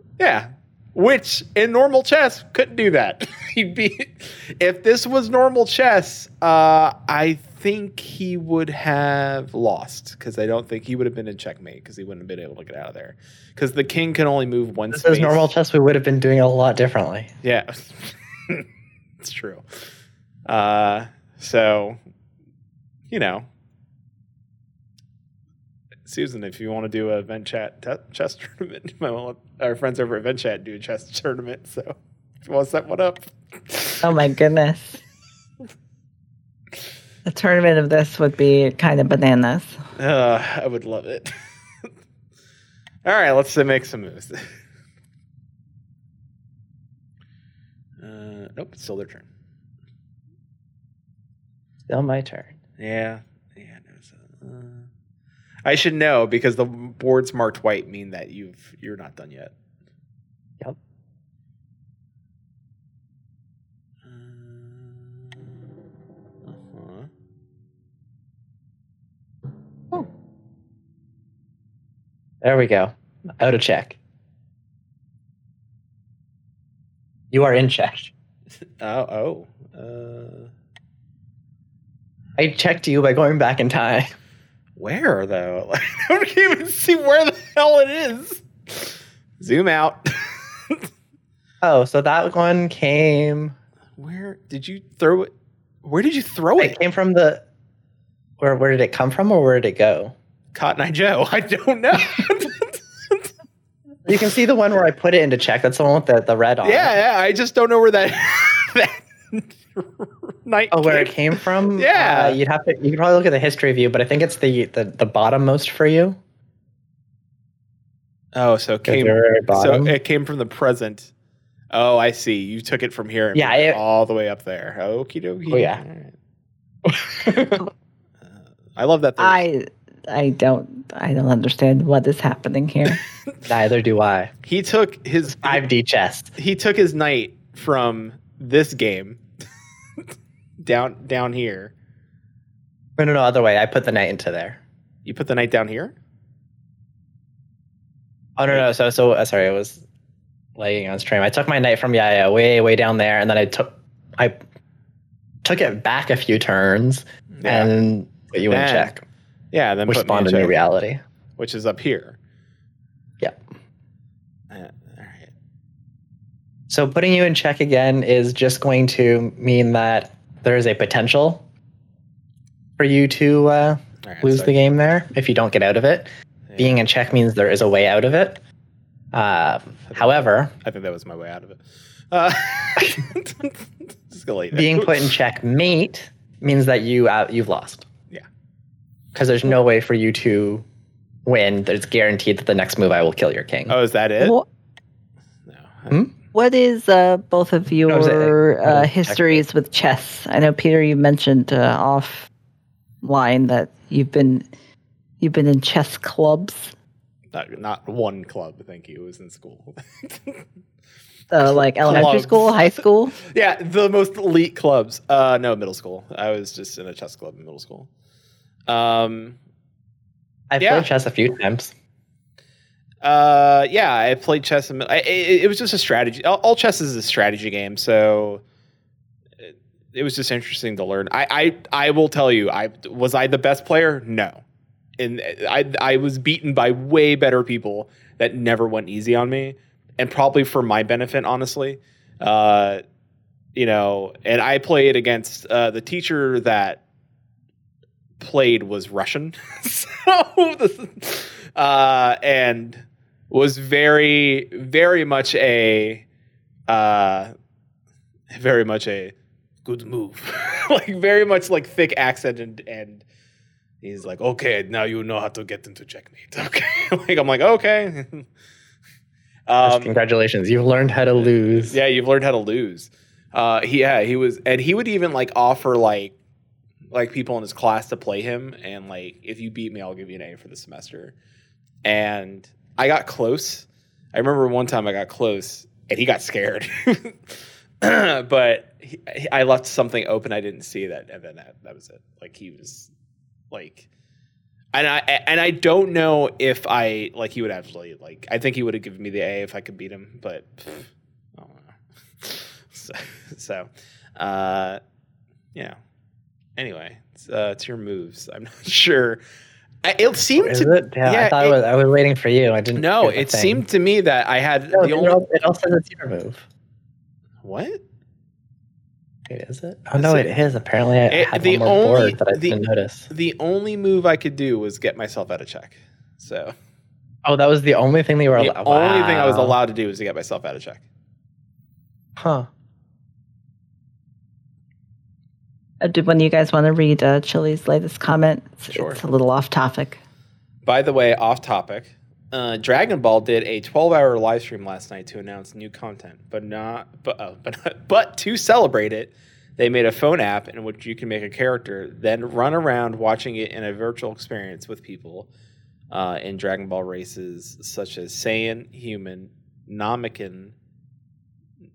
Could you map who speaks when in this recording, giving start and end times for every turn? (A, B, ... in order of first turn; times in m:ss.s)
0:00.2-0:15.5 A
0:14.9-0:17.3 B
0:17.4-0:18.6 A
0:19.2-0:19.9 A
0:20.5-0:22.0 A
0:23.1-0:23.5 A
0:26.0-0:34.2 A
0:34.0-0:35.0 C
0:37.2-0:39.8 C
0:40.0-0:41.4 A
0:43.0-0:44.5 A
0:48.0-0:49.3 A
0:51.9-0:52.6 B
0:52.8-0:54.9 A
0:55.6-0:59.5 A
1:04.0-1:05.4 A
1:06.5-1:07.1 A
1:12.4-1:14.0 B
1:17.3-1:18.1 B
1:18.8-1:20.5 A
1:22.4-1:24.1 B
1:24.8-1:30.8 A
1:31.6-1:33.6 B
1:34.0-1:35.3 A
1:35.8-1:36.8 A
1:36.6-1:37.4 B
1:38.4-1:40.2 B
1:40.5-1:43.3 A
1:44.1-1:46.9 B
1:46.6-1:52.4 A
1:50.7-1:56.2 B
1:58.3-2:01.1 A
1:58.9-2:00.0 B
2:01.7-2:06.1 A
2:03.4-2:03.8 B
2:05.5-2:05.8 B
2:06.8-2:07.6 B
2:08.8-2:09.4 A
2:09.2-2:13.0 C
2:13.4-2:14.3 B
2:14.4-2:15.7 A
2:15.3-2:16.3 B
2:16.4-2:19.2 A
2:20.6-2:21.7 A
2:23.0-2:24.6 B
2:25.0-2:25.9 A
2:28.4-2:29.8 B
2:30.6-2:34.4 B
2:35.4-2:39.0 B
2:37.3-2:37.7 A
2:38.5-2:40.6 A
2:39.9-2:41.0 B
2:41.4-2:42.2 A
2:44.5-2:45.3 A
2:46.7-2:51.4 B
2:52.8-2:58.4 B
2:54.0-2:54.5 A
2:56.5-2:56.8 A
2:59.1-3:00.5 B
2:59.9-3:01.6 A
3:02.1-3:05.1 A
3:04.5-3:07.9 B
3:09.2-3:10.6 B
3:11.2-3:13.8 B
3:13.7-3:14.4 A
3:14.2-3:14.4 C
3:15.5-3:16.1 A
3:16.3-3:22.3 C
3:17.9-3:19.4 B
3:23.0-3:24.5 C
3:25.2-3:26.7 C
3:27.3-3:30.4 A
3:31.3-3:33.2 C
3:31.4-3:37.9 A
3:38.7-3:39.4 A
3:40.5-3:41.7 B
3:40.6-3:40.9 A
3:43.0-3:48.4 A
3:49.4-3:54.4 A
3:55.0-4:02.8 A
4:03.6-4:06.8 A
4:08.2-4:16.0 A
4:16.7-4:17.3 A
4:18.3-4:19.1 A
4:19.6-4:23.0 A
4:23.8-4:28.3 A
4:29.5-4:29.9 A
4:29.6-4:31.8 B
4:31.1-4:36.2 A
4:36.9-4:41.2 A
4:41.8-4:52.9 A
4:53.5-4:53.9 A
4:54.7-5:04.8 A
5:06.6-5:09.2 A
5:09.8-5:11.6 A
5:10.4-5:13.6 B
5:12.8-5:15.2 A
5:14.7-5:16.4 B
5:17.4-5:17.8 A
5:19.3-5:23.1 B
5:20.0-5:20.3 A
5:21.1-5:26.5 A
5:27.2-5:29.6 B
5:28.4-5:30.8 A
5:32.2-5:32.5 B
5:35.8-5:40.0 C
5:38.7-5:39.0 A
5:40.7-5:55.3 A
5:55.9-6:00.5 A